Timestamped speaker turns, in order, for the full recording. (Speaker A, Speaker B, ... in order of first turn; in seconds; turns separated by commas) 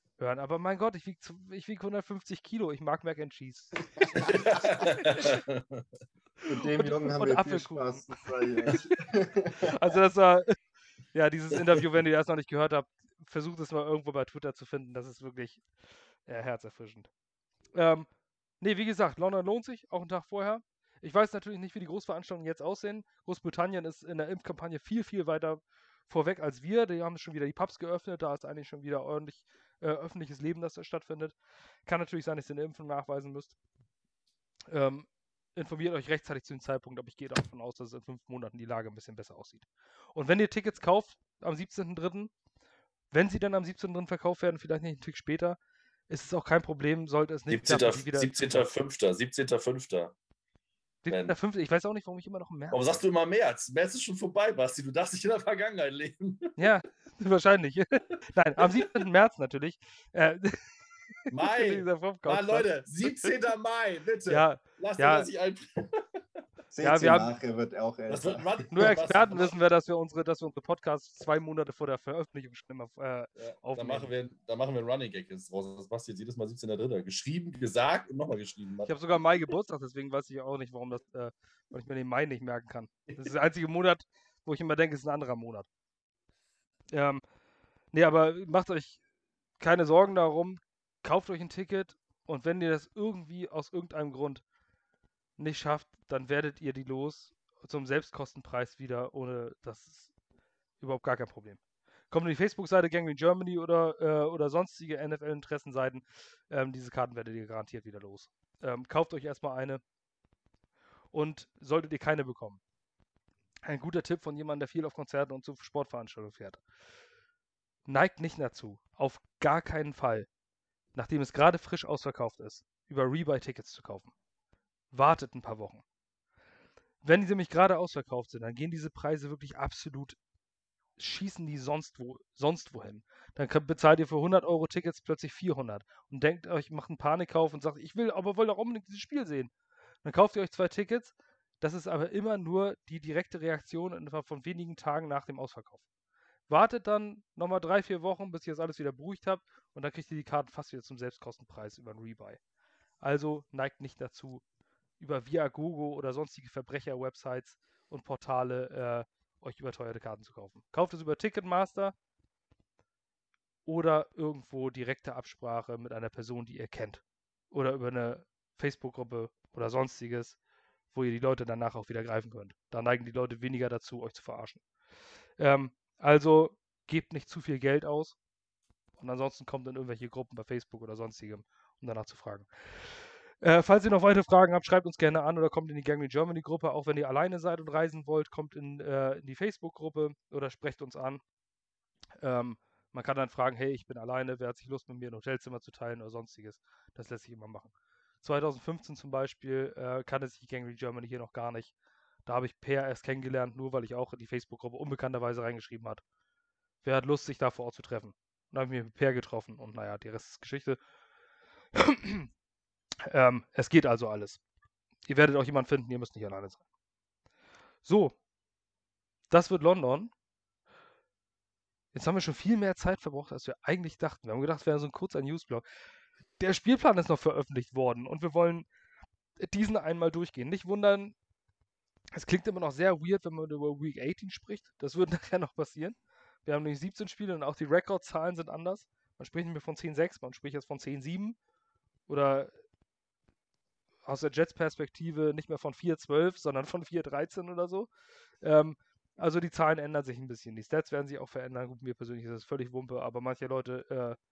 Speaker A: 0.2-4.1, Speaker B: 4.2-5.8, Speaker A: 4.6-5.2, Speaker A: 6.4-8.1, Speaker C: 6.5-9.8, Speaker A: 9.6-10.6, Speaker A: 11.1-15.7, Speaker A: 16.3-17.1, Speaker A: 17.8-18.1, Speaker A: 18.6-31.4, Speaker A: 31.9-33.6, Speaker A: 34.7-42.3, Speaker A: 43.1-45.6, Speaker A: 46.1-48.7, Speaker B: 47.5-50.1, Speaker A: 51.0-53.0, Speaker B: 51.1-51.4, Speaker B: 52.7-56.5, Speaker A: 56.6-63.4, Speaker B: 61.3-66.0, Speaker A: 64.3-65.3, Speaker C: 66.7-68.7, Speaker A: 66.8-67.3, Speaker B: 68.1-69.5, Speaker A: 68.7-74.1, Speaker B: 73.4-79.0, Speaker A: 78.8-85.7, Speaker A: 86.9-87.2, Speaker A: 87.9-89.0, Speaker A: 89.6-94.4, Speaker A: 95.4-100.1, Speaker A: 100.8-101.6, Speaker A: 102.1-109.8, Speaker A: 111.1-112.6, Speaker A: 113.7-116.6, Speaker A: 117.9-120.3, Speaker A: 121.0-124.1, Speaker A: 124.9-125.8, Speaker A: 127.0-130.2, Speaker A: 131.0-139.5, Speaker A: 140.1-145.8, Speaker A: 146.5-152.4, Speaker A: 153.0-154.4, Speaker A: 155.0-161.9, Speaker A: 163.7-170.4, Speaker A: 170.9-174.6, Speaker A: 175.4-178.2, Speaker A: 179.0-191.2, Speaker A: 192.2-201.7, Speaker A: 202.3-206.0, Speaker A: 206.8-210.8, Speaker A: 211.8-212.3, Speaker A: 213.1-214.4, Speaker A: 215.1-216.6, Speaker A: 217.8-218.2, Speaker A: 219.3-220.1, Speaker A: 221.9-225.6, Speaker A: 226.4-228.7, Speaker A: 229.4-231.2, Speaker A: 232.2-241.4, Speaker A: 242.1-242.5, Speaker A: 244.1-247.9, Speaker A: 248.4-254.2